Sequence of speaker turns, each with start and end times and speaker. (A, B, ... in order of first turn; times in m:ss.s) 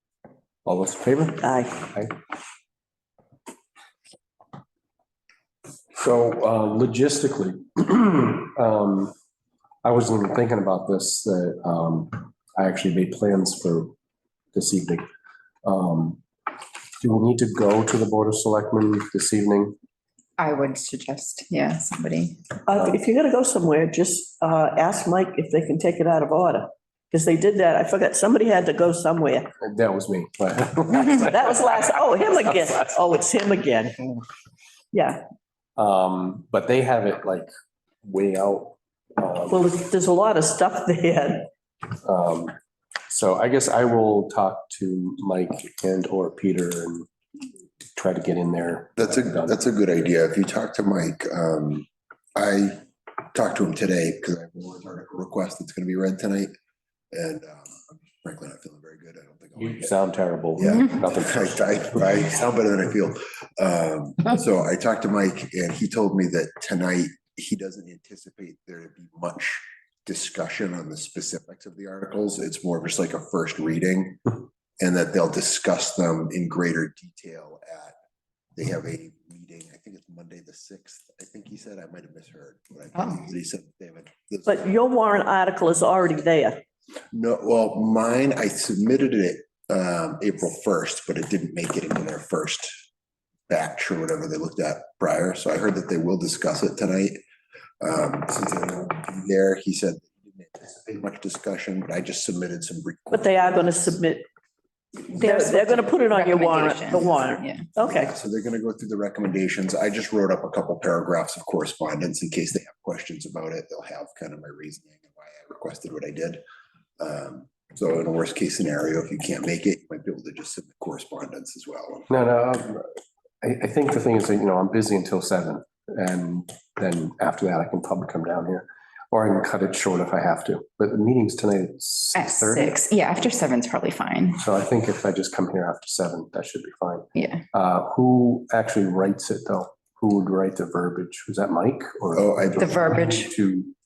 0:00.6-0:02.2 A
0:01.4-0:01.8 B
0:06.0-0:09.1 A
0:09.8-0:13.9 A
0:14.5-0:15.1 A
0:15.6-0:16.2 A
0:17.0-0:19.8 A
0:20.4-0:22.4 C
0:22.7-0:29.5 B
0:29.6-0:33.0 A
0:31.0-0:34.1 B
0:34.9-0:35.2 B
0:35.8-0:37.5 A
0:38.0-0:39.6 A
0:39.5-0:41.5 B
0:42.0-0:42.6 A
0:43.1-0:47.1 A
0:47.9-0:49.6 A
0:49.0-0:56.5 D
0:57.1-1:00.0 D
0:59.6-1:02.2 A
1:00.6-1:18.0 D
1:18.6-1:24.7 D
1:24.5-1:26.6 B
1:27.1-1:32.7 D
1:33.5-1:37.2 D
1:37.8-1:43.8 D
1:43.1-1:44.2 B
1:45.1-1:47.7 C
1:45.1-1:48.1 B
1:47.6-1:56.4 D
1:57.0-2:02.1 D
2:02.1-2:12.8 A
2:12.2-2:14.4 C
2:14.4-2:23.7 A
2:17.2-2:17.4 C
2:22.2-2:22.9 D
2:22.6-2:23.3 C